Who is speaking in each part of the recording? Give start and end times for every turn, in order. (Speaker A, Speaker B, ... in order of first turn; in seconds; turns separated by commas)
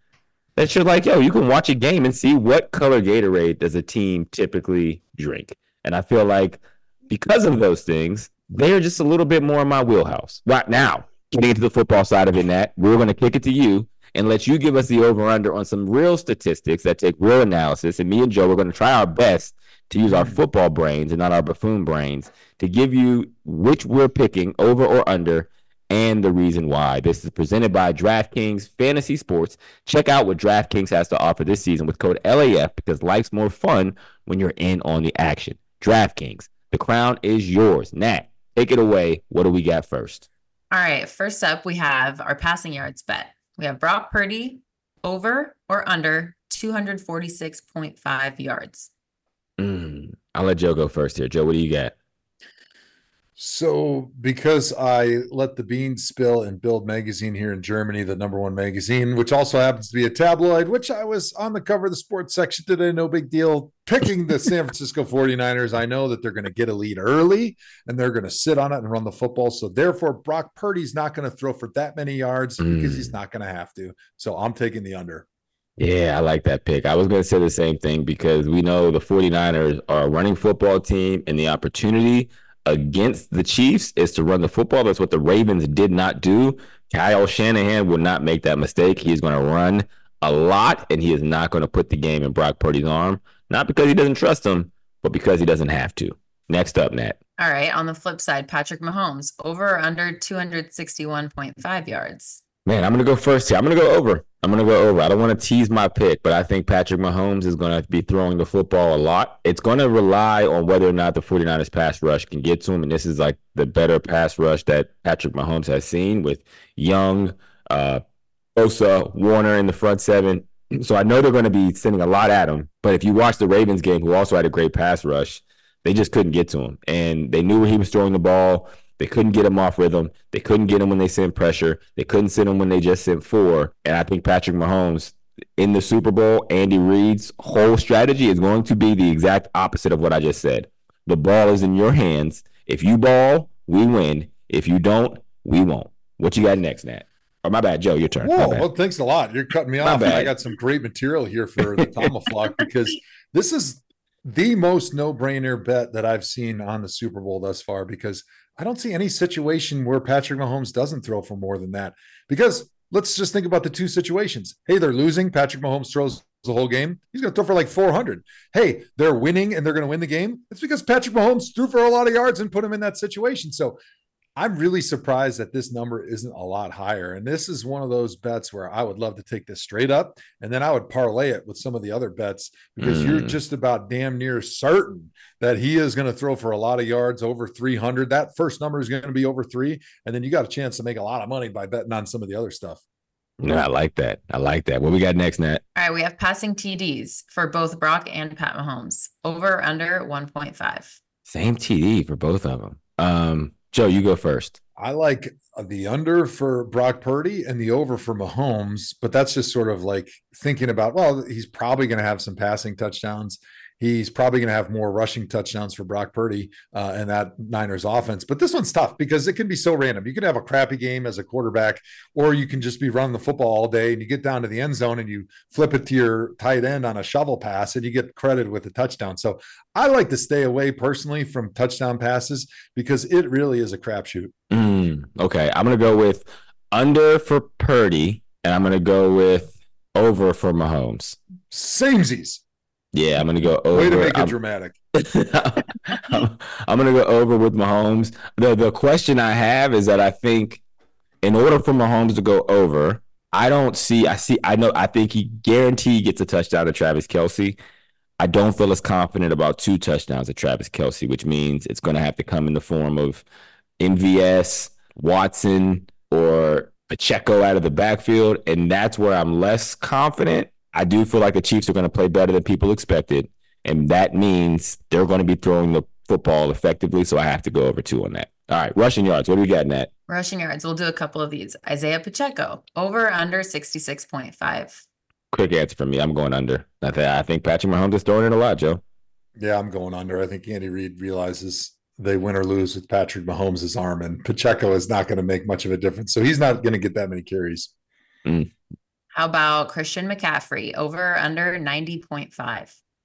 Speaker A: 0.6-40.3, Speaker B: 20.1-20.4, Speaker C: 40.7-48.9, Speaker A: 49.6-51.9, Speaker B: 53.4-75.2, Speaker A: 72.6-73.2, Speaker A: 75.8-97.2, Speaker C: 97.4-102.4, Speaker A: 102.7-118.0, Speaker A: 118.6-148.7, Speaker B: 148.2-173.8, Speaker A: 149.8-150.3, Speaker B: 174.4-192.8, Speaker A: 182.8-183.4, Speaker A: 193.4-195.6, Speaker C: 195.8-201.0, Speaker A: 201.3-204.6, Speaker B: 204.8-234.3, Speaker A: 234.5-241.2, Speaker B: 241.5-242.4, Speaker A: 242.9-244.4, Speaker B: 243.7-244.8, Speaker A: 244.9-250.6, Speaker A: 251.2-257.6, Speaker A: 258.2-263.2, Speaker A: 263.8-279.9, Speaker C: 280.1-284.8, Speaker A: 285.3-288.8, Speaker B: 289.4-297.7, Speaker A: 298.2-298.5, Speaker C: 299.1-302.8